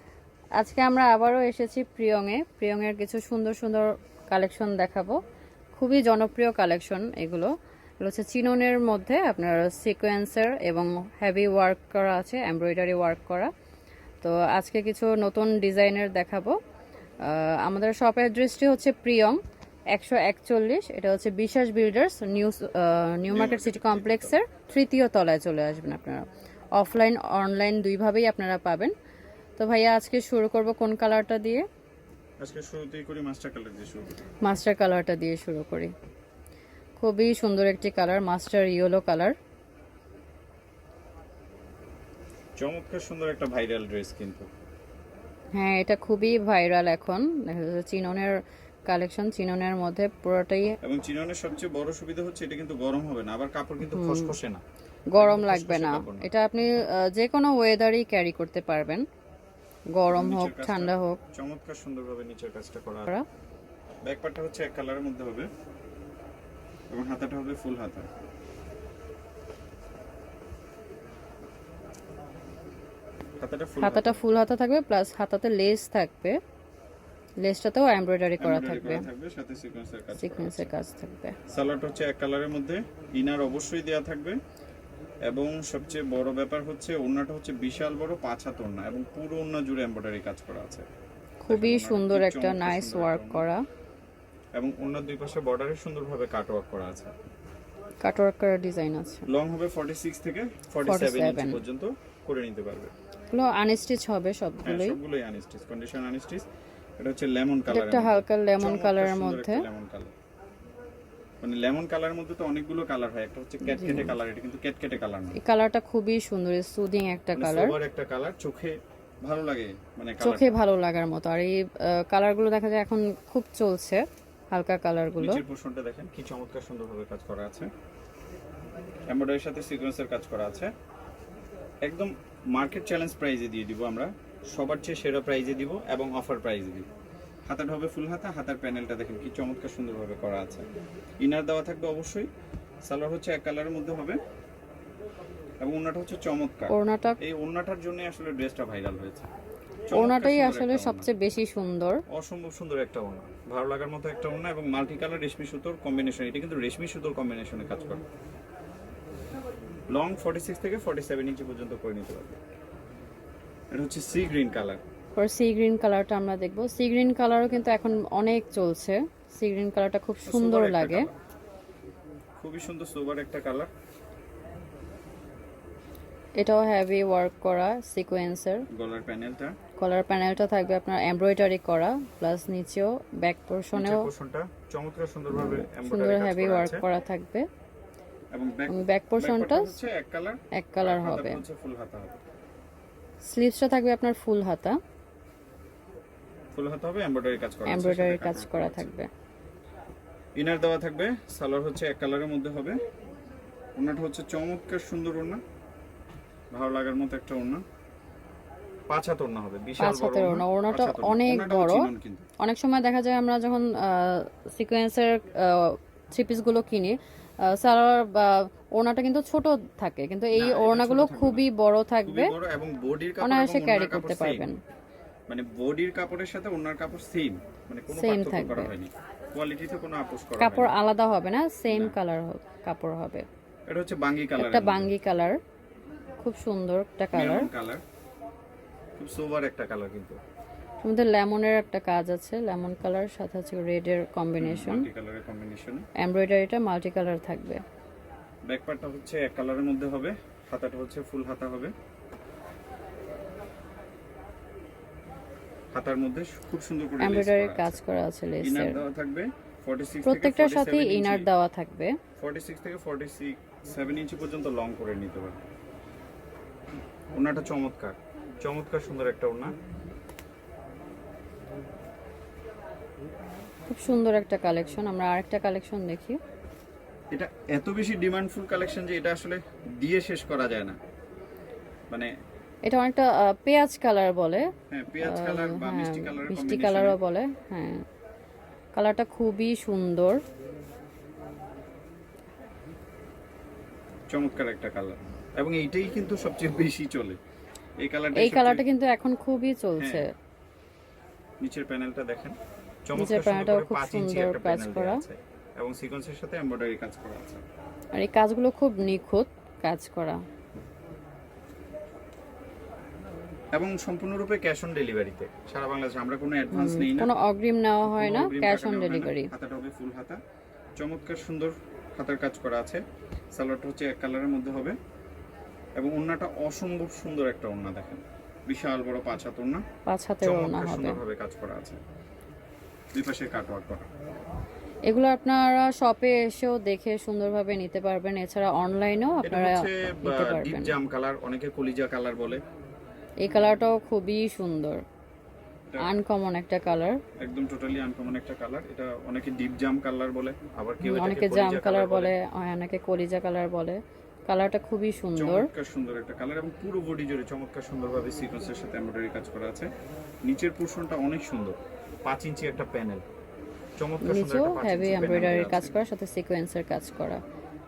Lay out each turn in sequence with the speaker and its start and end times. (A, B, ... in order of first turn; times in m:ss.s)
0:00.6-0:05.2 A
0:05.8-0:07.5 A
0:08.0-0:13.5 A
0:14.2-0:16.5 A
0:17.2-0:19.4 A
0:19.9-0:28.9 A
0:23.3-0:24.4 B
0:29.6-0:31.6 A
0:32.4-0:34.1 B
0:34.4-0:35.9 A
0:37.0-0:39.3 A
0:42.6-0:44.5 B
0:45.5-0:48.3 A
0:48.9-0:50.8 A
0:50.8-0:54.6 B
0:53.8-0:54.3 A
0:55.1-0:59.0 A
0:55.1-0:56.3 B
0:59.9-1:01.2 A
1:00.1-1:03.1 B
1:04.0-1:05.5 B
1:06.9-1:08.1 B
1:13.4-1:14.2 B
1:13.8-1:16.4 A
1:17.4-1:19.1 A
1:18.4-1:20.7 B
1:20.1-1:21.4 A
1:21.5-1:24.4 B
1:25.3-1:30.8 B
1:31.4-1:33.6 A
1:31.5-1:33.4 B
1:34.5-1:37.1 B
1:38.0-1:39.2 A
1:39.3-1:42.9 B
1:40.8-1:41.6 A
1:43.3-1:45.0 A
1:44.6-1:46.4 B
1:47.0-1:50.1 B
1:47.7-1:49.6 A
1:51.4-1:55.4 B
1:53.6-1:54.1 A
1:55.4-1:57.8 A
1:57.3-2:00.6 B
2:00.2-2:05.4 A
2:05.2-2:07.7 B
2:09.1-2:10.7 B
2:11.8-2:16.9 B
2:17.4-2:20.6 B
2:21.2-2:22.3 B
2:22.8-2:24.2 B
2:25.6-2:29.3 B
2:26.7-2:27.2 A
2:29.9-2:31.1 B
2:29.9-2:32.0 A
2:32.1-2:38.0 B
2:39.9-2:42.3 B
2:43.7-2:44.8 B
2:45.2-2:51.1 A
2:50.2-2:51.1 B
2:52.4-2:53.7 B
2:56.4-2:58.6 A
2:58.7-2:59.5 B
2:59.8-3:04.1 A
3:03.7-3:06.8 B
3:05.4-3:07.5 A
3:08.3-3:12.2 B
3:08.7-3:09.8 A
3:10.5-3:11.4 A
3:13.2-3:14.8 A
3:16.5-3:18.9 B
3:17.7-3:19.1 A
3:20.4-3:22.8 B
3:23.8-3:25.4 B
3:26.5-3:27.6 B
3:28.9-3:32.2 B
3:29.8-3:42.3 A
3:40.4-3:41.4 B
3:42.0-3:44.5 B
3:43.2-3:44.6 A
3:45.3-3:50.7 B
3:47.9-3:48.7 A
3:50.4-3:53.2 A
3:51.7-3:52.0 B
3:53.7-3:54.9 B
3:54.4-3:55.4 A
3:56.2-3:57.5 A
3:57.1-3:57.8 B
3:59.0-4:00.2 B
4:00.8-4:04.9 A
4:04.4-4:05.8 B
4:06.0-4:07.6 A
4:08.5-4:11.7 B
4:15.7-4:17.8 B
4:17.0-4:18.8 A
4:18.4-4:21.3 B
4:20.0-4:22.0 A
4:22.2-4:25.4 B
4:27.1-4:29.5 B
4:33.7-4:36.2 A
4:37.1-4:40.8 B
4:42.6-4:44.5 A
4:44.7-4:47.0 B
4:45.0-4:47.8 A
4:48.7-4:50.2 A
4:54.1-4:57.2 B
4:57.8-4:58.6 B
4:58.1-5:00.1 A
4:59.8-5:00.0 B
5:01.4-5:07.4 B
5:03.0-5:05.0 A
5:08.0-5:10.2 A
5:13.5-5:17.1 B
5:16.5-5:19.3 A
5:17.8-5:20.2 B
5:20.8-5:22.8 B
5:23.3-5:24.8 B
5:25.8-5:29.6 B
5:29.9-5:31.0 A
5:30.2-5:31.8 B
5:32.9-5:33.9 B
5:34.8-5:40.8 A
5:39.2-5:42.4 B
5:43.2-5:44.8 A
5:45.7-5:45.9 B
5:45.8-5:47.0 A
5:47.2-5:52.1 B
5:50.8-5:55.5 A
5:55.2-5:59.7 B
6:00.2-6:03.0 B
6:03.8-6:05.7 B
6:04.0-6:07.2 A